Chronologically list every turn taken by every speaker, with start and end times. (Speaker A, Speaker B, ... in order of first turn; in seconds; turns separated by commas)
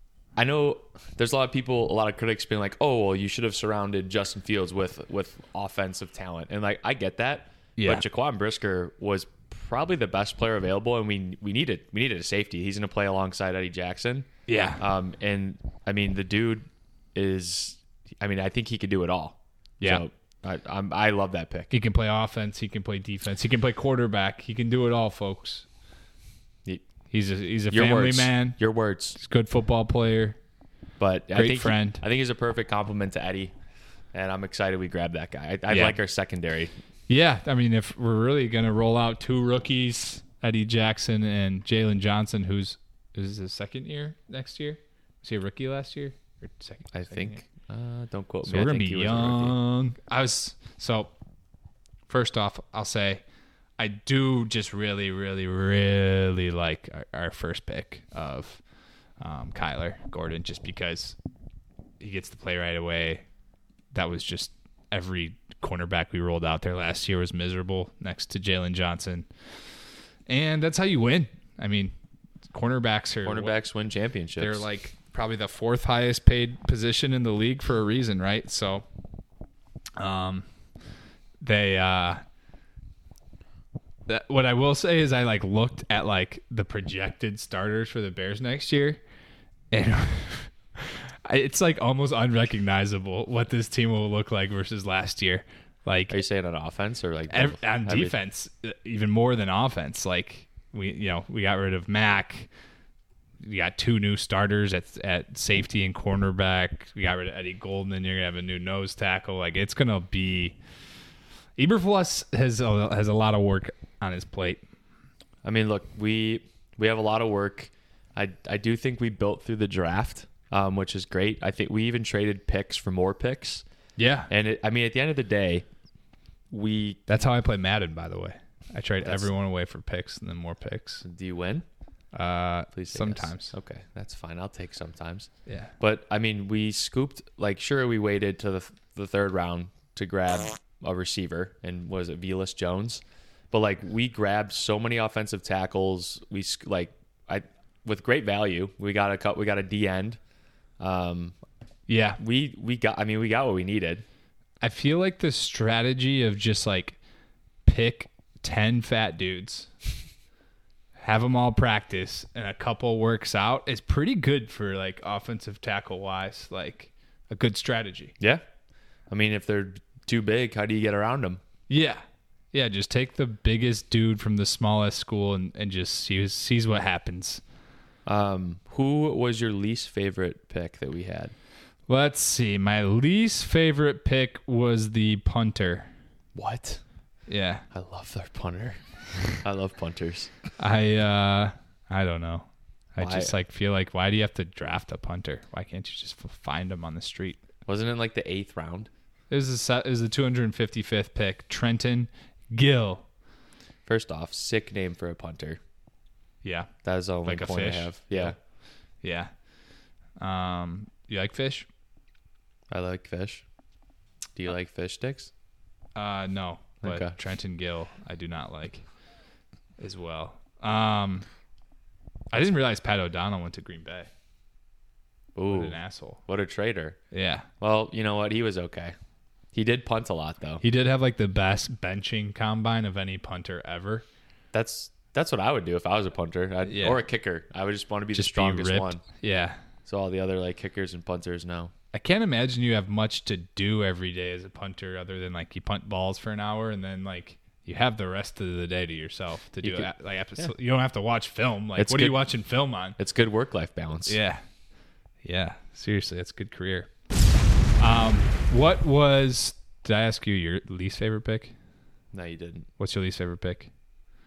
Speaker A: 0.4-14.3, Speaker B: 7.8-8.0, Speaker B: 14.5-14.8, Speaker A: 14.8-21.7, Speaker B: 21.7-25.7, Speaker B: 27.1-28.6, Speaker A: 27.7-29.2, Speaker B: 29.1-30.4, Speaker A: 31.0-33.5, Speaker B: 31.3-32.0, Speaker A: 34.1-36.7, Speaker B: 35.7-36.0, Speaker B: 37.1-47.4, Speaker A: 46.9-49.6, Speaker B: 48.5-51.1, Speaker B: 52.1-53.2, Speaker B: 53.8-58.6, Speaker B: 59.2-61.2, Speaker B: 62.0-63.2, Speaker B: 63.9-69.3, Speaker B: 70.3-71.9, Speaker B: 72.5-73.6, Speaker A: 73.2-74.6, Speaker B: 74.4-78.8, Speaker B: 80.0-80.5, Speaker B: 81.4-82.2, Speaker B: 84.1-89.0, Speaker B: 89.7-96.2, Speaker A: 96.1-98.2, Speaker B: 97.3-102.5, Speaker B: 103.4-110.6, Speaker B: 111.6-114.6, Speaker A: 115.4-123.7, Speaker B: 124.0-124.3, Speaker A: 124.3-125.7, Speaker A: 126.5-127.0, Speaker B: 127.1-131.0, Speaker A: 129.0-129.3, Speaker A: 131.0-131.7, Speaker B: 132.1-133.5, Speaker A: 132.7-150.2, Speaker B: 135.5-135.7, Speaker A: 150.8-151.3, Speaker B: 151.9-152.2, Speaker A: 152.2-154.1, Speaker B: 154.6-157.0, Speaker B: 157.7-159.7, Speaker B: 161.0-168.2, Speaker A: 169.1-171.4, Speaker B: 171.7-172.0, Speaker B: 172.5-177.4, Speaker A: 178.1-181.3, Speaker B: 181.9-185.9, Speaker A: 186.3-186.8, Speaker B: 187.3-187.7, Speaker A: 187.7-190.3, Speaker B: 190.6-197.4, Speaker A: 193.0-193.3, Speaker A: 197.7-198.9, Speaker B: 199.3-203.0, Speaker A: 203.9-205.6, Speaker B: 206.4-206.7, Speaker A: 206.8-208.4, Speaker B: 207.2-208.3, Speaker B: 209.0-209.3, Speaker B: 210.2-211.7, Speaker A: 212.7-213.4, Speaker A: 214.4-215.3, Speaker B: 215.9-218.8, Speaker A: 216.8-217.2, Speaker B: 219.8-221.3, Speaker B: 222.3-224.1, Speaker A: 225.3-227.0, Speaker B: 225.5-226.2, Speaker B: 227.1-227.5, Speaker A: 227.6-228.9, Speaker A: 229.5-230.6, Speaker B: 230.6-234.1, Speaker A: 234.5-239.0, Speaker B: 236.7-237.0, Speaker B: 238.1-239.6, Speaker A: 239.9-241.7, Speaker B: 241.9-253.0, Speaker A: 249.6-250.5, Speaker A: 251.8-252.2, Speaker A: 253.0-254.2, Speaker B: 254.1-254.4, Speaker B: 255.2-256.9, Speaker B: 257.8-261.5, Speaker A: 262.1-262.7, Speaker B: 262.8-263.7